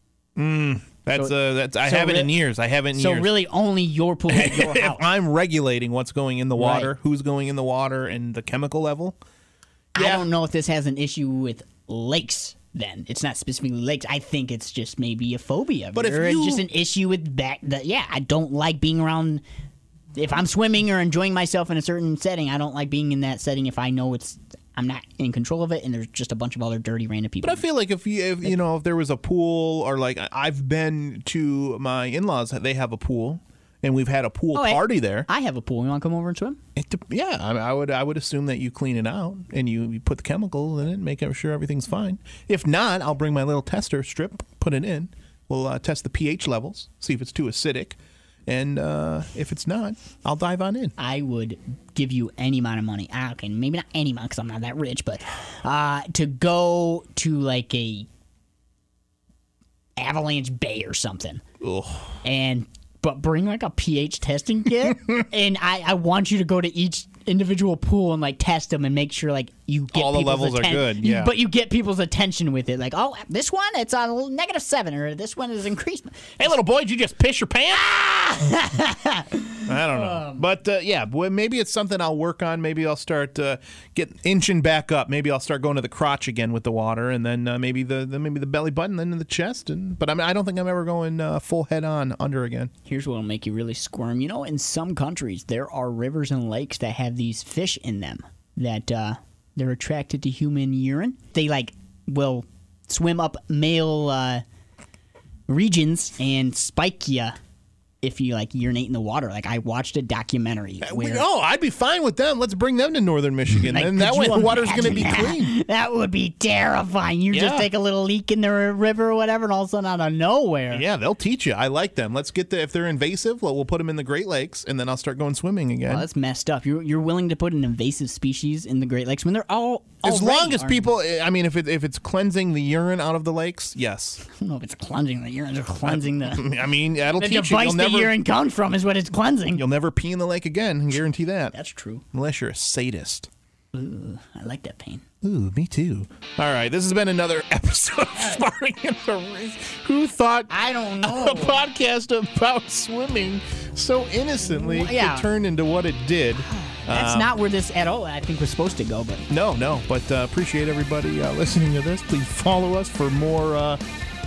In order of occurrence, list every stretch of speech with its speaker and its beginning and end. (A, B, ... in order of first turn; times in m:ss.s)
0:00.4-0:03.3 A
0:01.1-0:02.4 B
0:02.9-0:05.0 B
0:04.3-0:09.2 A
0:06.6-0:06.9 B
0:09.9-0:10.2 A
0:09.9-0:19.4 B
0:15.9-0:16.7 A
0:20.2-0:27.6 B
0:27.4-0:35.3 A
0:34.5-0:36.6 B
0:36.8-0:50.9 A
0:51.0-0:58.1 B
1:00.0-1:01.4 B
1:01.6-1:02.2 A
1:02.2-1:16.4 B
1:09.9-1:11.3 A
1:16.4-1:17.9 A
1:17.7-1:20.4 B
1:19.7-1:32.7 A
1:32.9-1:44.4 B
1:45.5-1:47.4 B
1:48.0-1:51.3 B
1:50.8-1:55.5 A
1:53.5-2:00.8 B
1:57.3-1:57.7 A
2:00.7-2:06.1 A
2:05.9-2:10.9 B
2:10.0-2:14.2 A
2:14.2-2:16.5 B
2:15.8-2:18.2 A
2:17.1-2:19.6 B
2:19.6-2:21.5 A
2:21.5-2:22.0 B
2:22.1-2:23.3 A
2:23.7-2:25.0 B
2:25.2-2:30.5 A
2:30.5-2:31.6 B
2:31.0-2:37.3 A
2:34.4-2:35.3 B
2:36.4-2:39.3 B
2:39.3-2:43.8 A